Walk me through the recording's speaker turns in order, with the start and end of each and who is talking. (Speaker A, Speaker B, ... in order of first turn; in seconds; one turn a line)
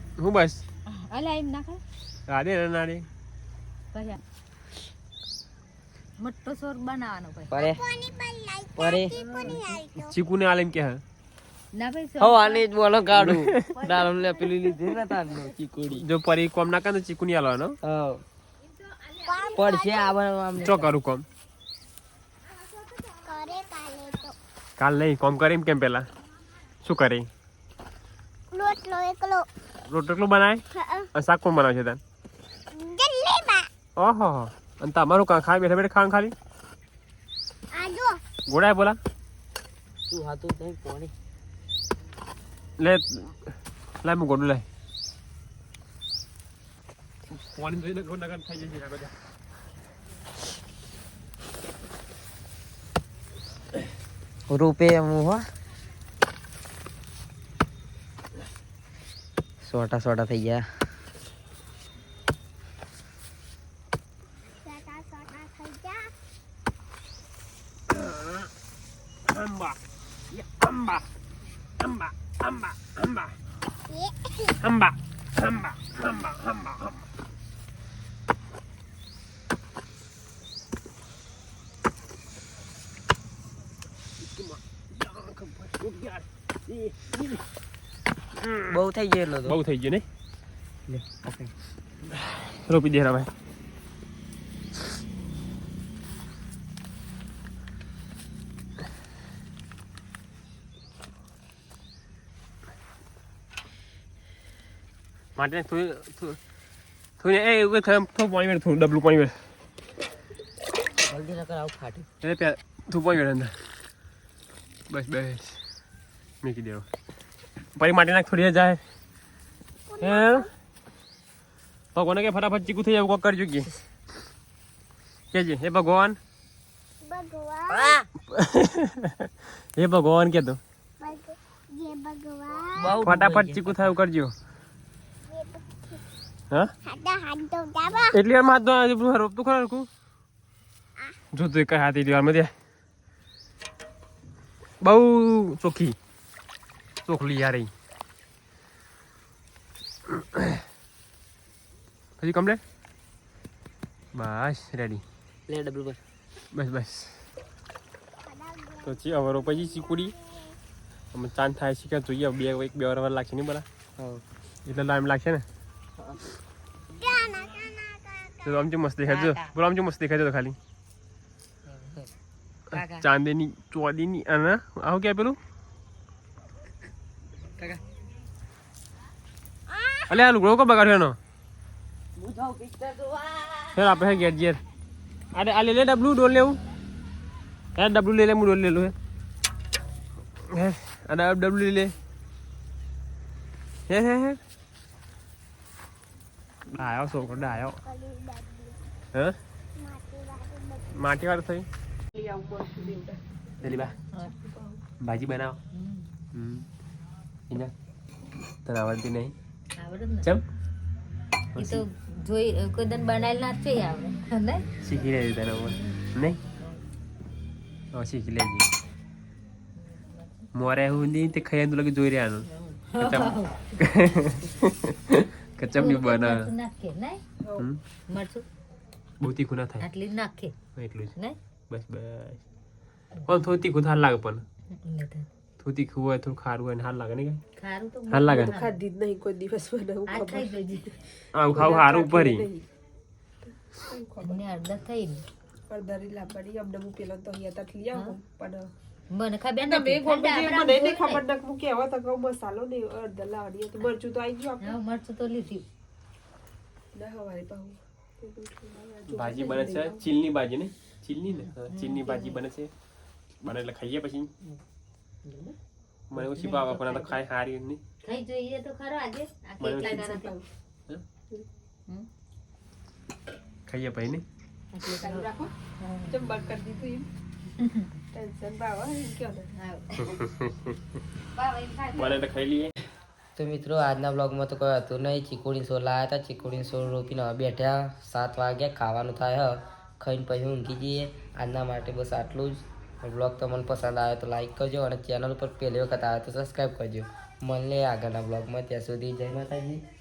Speaker A: 0.2-0.6
Speaker B: 0.9-1.8
Speaker A: 2.3-3.1
Speaker B: 3.9-4.2
Speaker B: 6.2-7.5
Speaker C: 7.5-7.8
Speaker D: 7.6-10.1
Speaker C: 8.8-9.6
Speaker B: 9.1-9.6
Speaker A: 10.0-11.0
Speaker B: 11.7-12.7
Speaker C: 12.2-16.0
Speaker A: 13.1-13.7
Speaker B: 13.8-14.6
Speaker A: 15.9-17.8
Speaker C: 17.8-18.2
Speaker D: 19.2-20.1
Speaker C: 19.5-20.9
Speaker A: 20.6-21.2
Speaker D: 23.2-24.3
Speaker A: 24.8-26.1
Speaker A: 26.8-27.3
Speaker D: 28.5-29.5
Speaker A: 29.9-30.6
Speaker D: 30.7-31.1
Speaker A: 31.1-32.0
Speaker D: 32.7-33.7
Speaker A: 34.0-36.3
Speaker D: 37.7-38.2
Speaker A: 38.5-39.0
Speaker C: 40.1-41.1
Speaker A: 42.8-44.6
Speaker A: 47.3-49.1
Speaker C: 54.5-55.4
Speaker C: 59.6-60.7
Speaker D: 64.6-66.1
Speaker A: 67.9-68.5
Speaker A: 69.3-69.8
Speaker A: 70.3-71.0
Speaker A: 71.8-73.3
Speaker D: 73.9-74.6
Speaker A: 74.6-77.0
Speaker A: 84.2-87.4
Speaker A: 88.4-88.8
Speaker C: 88.7-89.6
Speaker A: 89.5-90.0
Speaker C: 90.9-91.5
Speaker A: 92.1-93.3
Speaker A: 105.4-106.4
Speaker A: 107.2-109.3
Speaker C: 111.0-112.1
Speaker A: 112.2-113.6
Speaker A: 114.9-115.6
Speaker A: 116.4-116.8
Speaker A: 117.8-118.8
Speaker D: 119.9-120.5
Speaker A: 120.0-120.5
Speaker A: 121.9-123.7
Speaker A: 125.3-126.2
Speaker D: 127.0-128.0
Speaker C: 127.7-128.1
Speaker A: 128.3-130.6
Speaker D: 131.0-133.0
Speaker C: 132.8-133.9
Speaker A: 133.0-134.3
Speaker D: 135.3-136.0
Speaker D: 136.8-138.2
Speaker A: 138.1-139.9
Speaker A: 141.3-142.5
Speaker A: 144.8-145.9
Speaker A: 147.1-147.7
Speaker A: 150.1-150.6
Speaker A: 152.2-152.6
Speaker A: 154.1-155.0
Speaker C: 155.5-156.0
Speaker A: 156.5-157.2
Speaker D: 158.2-159.0
Speaker A: 158.8-160.1
Speaker D: 159.7-160.6
Speaker A: 161.1-163.6
Speaker C: 164.0-164.2
Speaker A: 164.7-165.4
Speaker C: 166.0-166.2
Speaker D: 167.0-168.6
Speaker A: 168.4-170.6
Speaker C: 169.1-169.5
Speaker C: 171.7-172.1
Speaker C: 172.7-173.1
Speaker A: 172.7-175.4
Speaker A: 180.1-181.2
Speaker C: 182.2-183.8
Speaker A: 183.7-184.6
Speaker A: 185.3-186.6
Speaker A: 187.8-188.9
Speaker A: 190.5-191.9
Speaker A: 193.9-194.4
Speaker A: 196.7-197.8
Speaker D: 197.0-198.8
Speaker D: 199.8-200.9
Speaker A: 200.9-201.7
Speaker E: 202.1-204.8
Speaker A: 203.6-203.9
Speaker A: 205.0-205.6
Speaker B: 205.7-206.1
Speaker A: 206.3-206.7
Speaker A: 208.7-209.3
Speaker B: 209.8-210.3
Speaker A: 211.6-211.8
Speaker B: 211.6-214.7
Speaker A: 214.8-216.4
Speaker B: 215.7-216.0
Speaker A: 217.9-218.7
Speaker B: 219.8-220.5
Speaker A: 220.6-226.5
Speaker B: 222.6-223.8
Speaker B: 225.7-227.2
Speaker E: 227.4-227.7
Speaker B: 228.1-228.4
Speaker A: 229.2-229.9
Speaker B: 229.8-230.6
Speaker A: 230.7-231.1
Speaker A: 231.7-232.4
Speaker A: 233.3-234.4
Speaker B: 234.7-235.3
Speaker A: 235.6-237.4
Speaker B: 237.6-238.7
Speaker A: 238.1-238.6
Speaker E: 238.3-242.6
Speaker B: 240.1-240.9
Speaker A: 241.3-242.4
Speaker E: 243.8-244.4
Speaker B: 244.2-245.2
Speaker E: 245.7-248.7
Speaker B: 249.1-251.2
Speaker E: 249.6-254.8
Speaker B: 254.6-255.6
Speaker E: 256.9-260.1
Speaker A: 259.1-262.7
Speaker B: 261.7-262.4
Speaker A: 263.4-264.3
Speaker A: 266.1-267.8
Speaker B: 266.2-267.1
Speaker B: 268.0-270.3
Speaker A: 269.6-270.0
Speaker E: 269.7-270.4
Speaker A: 273.7-274.2
Speaker B: 274.7-276.2
Speaker E: 274.9-275.5
Speaker E: 276.1-277.1
Speaker B: 277.6-277.9
Speaker E: 278.1-279.5
Speaker B: 279.6-280.0
Speaker A: 280.0-280.8
Speaker B: 281.3-282.2
Speaker A: 281.9-282.7
Speaker C: 283.4-299.8